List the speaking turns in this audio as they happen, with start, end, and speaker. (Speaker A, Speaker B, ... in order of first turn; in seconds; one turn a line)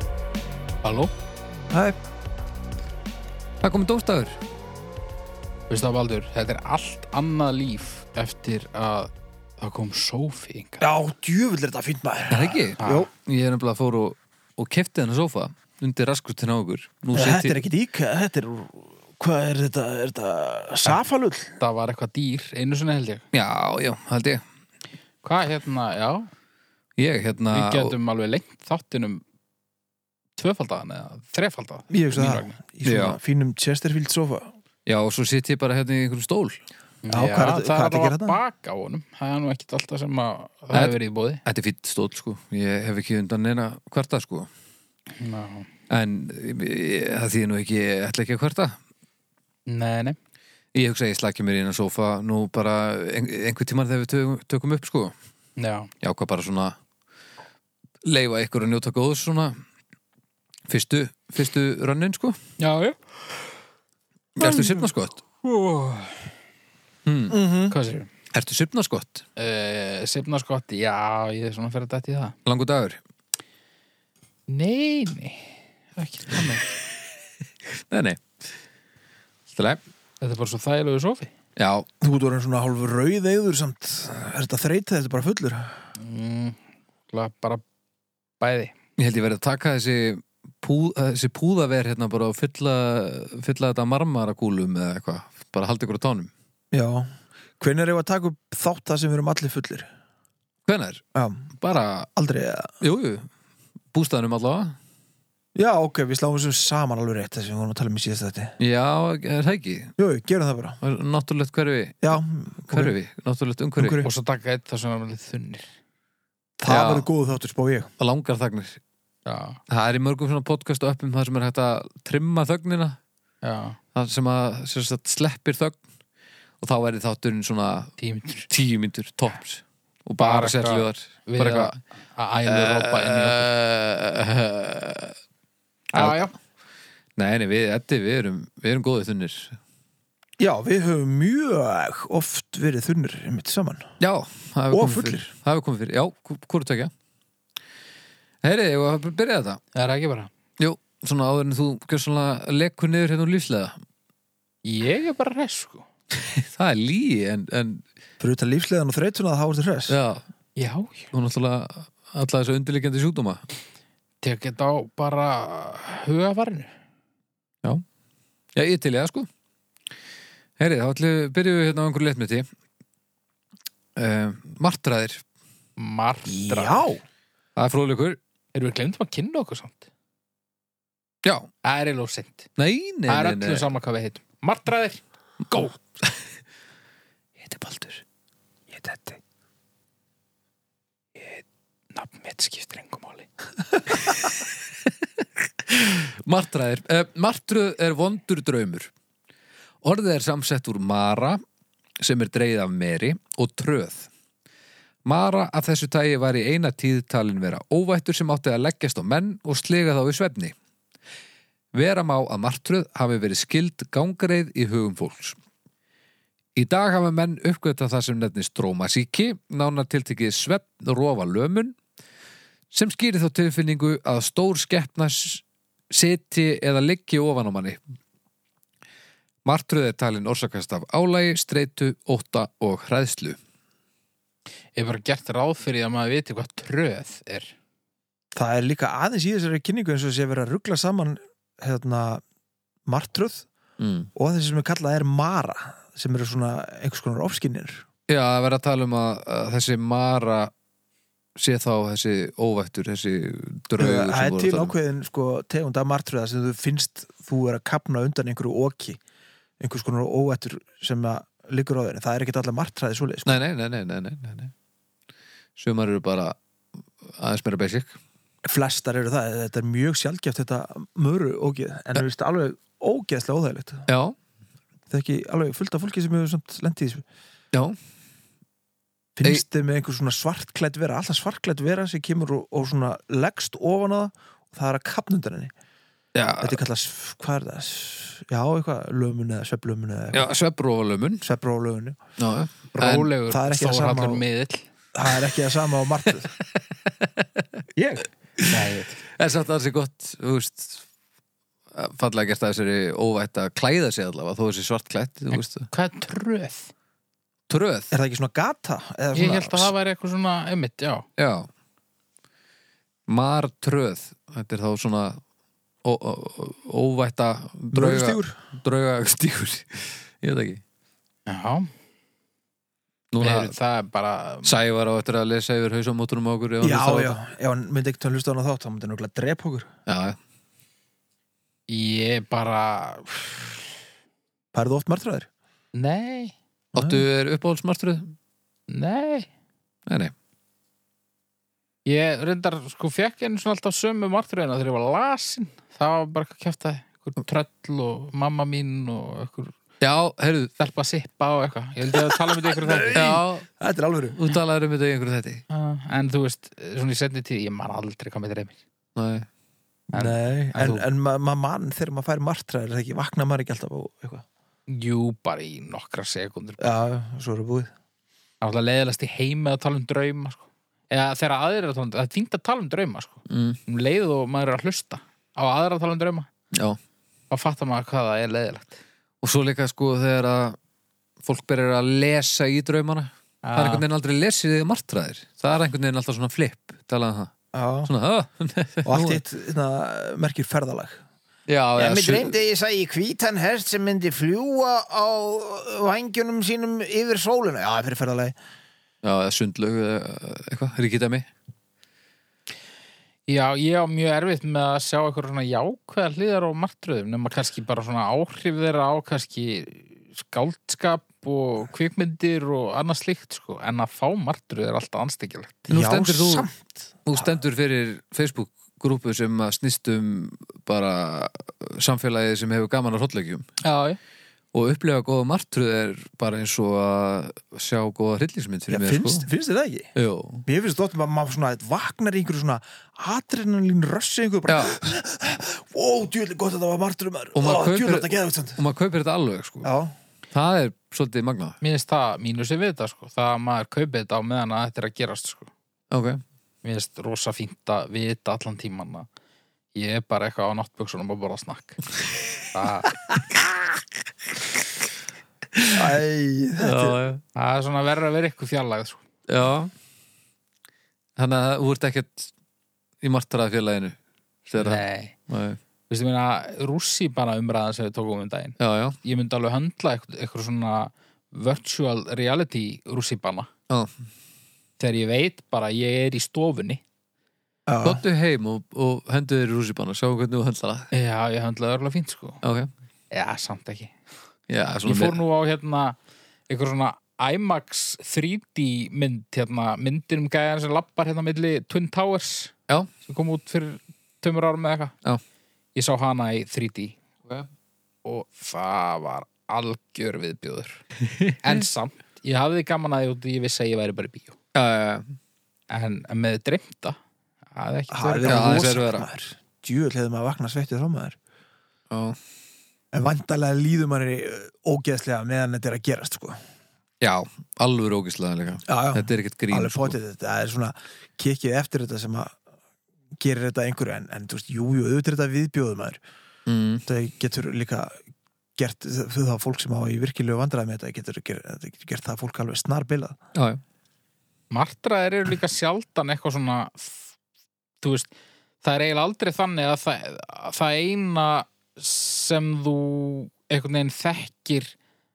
Speaker A: 0.8-1.1
Speaker B: 1.7-2.0
Speaker C: 3.6-4.4
Speaker A: 5.7-10.8
Speaker B: 10.8-13.1
Speaker C: 12.3-17.6
Speaker A: 12.8-13.1
Speaker B: 17.1-21.5
Speaker A: 21.6-23.2
Speaker C: 23.3-24.4
Speaker A: 25.2-26.3
Speaker C: 27.0-27.9
Speaker A: 27.5-29.2
Speaker A: 30.4-32.6
Speaker B: 31.9-34.5
Speaker C: 32.8-33.2
Speaker C: 34.9-36.6
Speaker A: 37.0-41.4
Speaker B: 37.1-38.4
Speaker C: 40.7-44.5
Speaker A: 45.2-45.7
Speaker C: 45.9-48.8
Speaker A: 49.7-50.2
Speaker C: 50.7-55.1
Speaker A: 55.6-55.9
Speaker C: 56.0-56.7
Speaker C: 58.0-59.6
Speaker C: 60.7-62.4
Speaker A: 62.6-63.0
Speaker C: 64.4-65.2
Speaker A: 64.4-64.8
Speaker A: 65.4-66.3
Speaker C: 67.0-67.4
Speaker B: 67.3-67.8
Speaker A: 67.7-68.1
Speaker C: 68.3-69.2
Speaker A: 69.4-72.3
Speaker C: 72.5-73.0
Speaker A: 74.5-76.7
Speaker C: 77.7-78.2
Speaker C: 79.5-79.8
Speaker A: 80.2-81.3
Speaker C: 81.6-81.9
Speaker B: 82.0-85.8
Speaker A: 86.0-87.6
Speaker A: 88.4-88.7
Speaker C: 89.0-96.3
Speaker B: 96.7-99.9
Speaker C: 100.7-101.0
Speaker B: 101.1-101.5
Speaker C: 101.6-102.1
Speaker B: 102.2-102.7
Speaker C: 102.8-103.3
Speaker C: 103.9-104.8
Speaker B: 105.5-108.5
Speaker C: 108.6-109.9
Speaker B: 110.0-110.8
Speaker C: 110.8-114.0
Speaker B: 112.0-112.9
Speaker B: 113.8-114.1
Speaker A: 114.0-115.7
Speaker B: 116.6-117.9
Speaker C: 116.7-117.1
Speaker C: 118.0-118.8
Speaker A: 119.2-119.6
Speaker C: 119.7-123.0
Speaker A: 123.4-123.8
Speaker C: 123.9-125.8
Speaker C: 126.6-127.9
Speaker A: 128.0-128.5
Speaker C: 128.5-131.8
Speaker A: 130.2-133.5
Speaker C: 132.4-135.1
Speaker A: 135.9-136.3
Speaker C: 135.9-136.2
Speaker C: 137.2-139.6
Speaker B: 140.4-143.9
Speaker C: 144.0-146.9
Speaker B: 144.7-145.3
Speaker C: 148.4-149.6
Speaker A: 149.7-150.3
Speaker C: 150.6-153.8
Speaker A: 154.6-155.8
Speaker C: 156.2-157.8
Speaker B: 158.2-159.9
Speaker C: 159.9-160.2
Speaker A: 160.6-161.1
Speaker C: 161.1-163.4
Speaker A: 164.2-166.7
Speaker C: 168.5-169.3
Speaker C: 170.6-172.4
Speaker C: 173.9-175.2
Speaker A: 175.8-176.9
Speaker B: 176.2-177.0
Speaker C: 177.6-178.2
Speaker A: 178.5-179.9
Speaker A: 181.6-182.5
Speaker C: 182.6-183.7
Speaker A: 183.1-185.8
Speaker C: 187.4-188.0
Speaker B: 188.7-189.2
Speaker A: 191.2-193.3
Speaker C: 195.7-198.9
Speaker C: 199.8-201.4
Speaker C: 202.0-204.1
Speaker C: 205.0-210.5
Speaker C: 211.7-215.4
Speaker C: 216.6-221.8
Speaker C: 222.7-227.8
Speaker C: 229.4-233.4
Speaker A: 234.8-237.5
Speaker B: 238.3-242.2
Speaker B: 242.8-243.5
Speaker C: 243.8-244.1
Speaker B: 244.1-247.8
Speaker C: 248.1-250.5
Speaker C: 251.3-254.7
Speaker B: 253.8-259.0
Speaker B: 259.6-263.4
Speaker C: 263.2-264.5
Speaker C: 265.6-266.4
Speaker C: 267.0-268.0
Speaker B: 268.4-273.9
Speaker C: 273.9-274.1
Speaker B: 274.9-277.0
Speaker B: 279.2-285.5
Speaker C: 286.1-286.6
Speaker B: 286.4-290.3
Speaker C: 290.1-291.2
Speaker B: 291.2-292.0
Speaker C: 292.2-293.1
Speaker A: 292.7-294.6
Speaker B: 293.3-294.2
Speaker B: 294.9-296.3
Speaker C: 297.0-297.4
Speaker B: 297.8-298.1
Speaker C: 298.4-300.8
Speaker A: 298.4-299.0
Speaker C: 301.7-305.7
Speaker A: 305.3-306.7
Speaker C: 307.5-307.9
Speaker B: 307.9-309.7
Speaker A: 309.1-311.1
Speaker C: 311.2-311.5
Speaker C: 313.1-315.2
Speaker C: 315.8-320.6
Speaker B: 317.7-318.4
Speaker A: 321.2-321.7
Speaker C: 323.1-323.5
Speaker A: 323.2-324.6
Speaker C: 324.4-327.2
Speaker B: 326.6-329.7
Speaker C: 329.9-330.2
Speaker A: 331.7-333.7
Speaker B: 334.5-335.3
Speaker A: 335.7-336.3
Speaker C: 336.7-338.1
Speaker B: 336.7-337.0
Speaker A: 338.7-339.3
Speaker C: 339.9-340.1
Speaker A: 341.9-349.5
Speaker C: 349.8-350.5
Speaker A: 350.6-353.2
Speaker B: 352.4-354.2
Speaker C: 352.9-353.5
Speaker C: 354.1-355.4
Speaker A: 355.5-358.6
Speaker C: 358.9-359.3
Speaker B: 359.9-364.2
Speaker A: 359.9-360.8
Speaker A: 364.7-366.8
Speaker B: 366.6-367.7
Speaker A: 368.4-376.3
Speaker C: 373.3-373.6
Speaker C: 376.5-376.8
Speaker A: 377.3-378.8
Speaker C: 379.2-380.6
Speaker C: 381.2-387.3
Speaker A: 383.4-383.8
Speaker B: 387.5-387.9
Speaker C: 387.8-389.2
Speaker B: 388.9-391.0
Speaker C: 391.5-392.3
Speaker B: 391.8-398.4
Speaker C: 399.0-401.2
Speaker A: 403.3-415.7
Speaker C: 415.7-416.5
Speaker B: 415.7-417.3
Speaker C: 417.1-423.4
Speaker A: 423.6-424.0
Speaker C: 424.5-429.3
Speaker B: 428.7-429.9
Speaker C: 429.9-430.4
Speaker B: 430.4-438.6
Speaker C: 434.5-434.8
Speaker C: 437.3-439.7
Speaker B: 439.6-439.9
Speaker C: 440.3-441.6
Speaker A: 441.6-445.5
Speaker C: 445.9-446.2
Speaker A: 446.6-449.1
Speaker A: 449.7-451.8
Speaker A: 452.5-452.9
Speaker B: 455.7-457.0
Speaker C: 456.6-457.2
Speaker A: 457.3-459.0
Speaker C: 459.3-459.7
Speaker C: 461.2-462.3
Speaker C: 463.0-463.9
Speaker C: 464.5-465.6
Speaker A: 464.6-465.1
Speaker A: 465.9-473.5
Speaker C: 468.6-469.0
Speaker A: 474.8-476.8
Speaker B: 477.7-478.0
Speaker C: 477.8-480.9
Speaker A: 480.9-482.4
Speaker C: 482.4-482.7
Speaker A: 483.1-483.9
Speaker C: 484.5-485.2
Speaker A: 484.8-486.0
Speaker A: 486.5-494.9
Speaker A: 495.7-497.0
Speaker A: 498.0-500.8
Speaker C: 501.1-501.6
Speaker A: 501.4-504.4
Speaker C: 504.5-505.2
Speaker A: 505.7-507.0
Speaker A: 507.5-508.7
Speaker B: 507.9-511.2
Speaker C: 508.3-509.1
Speaker C: 511.9-512.2
Speaker B: 512.9-516.4
Speaker C: 517.0-520.0
Speaker B: 518.7-522.4
Speaker B: 523.2-526.0
Speaker C: 526.5-526.8
Speaker B: 526.9-528.0
Speaker B: 528.5-533.2
Speaker C: 533.3-533.6
Speaker A: 534.5-537.0
Speaker A: 537.8-538.1
Speaker A: 538.6-544.7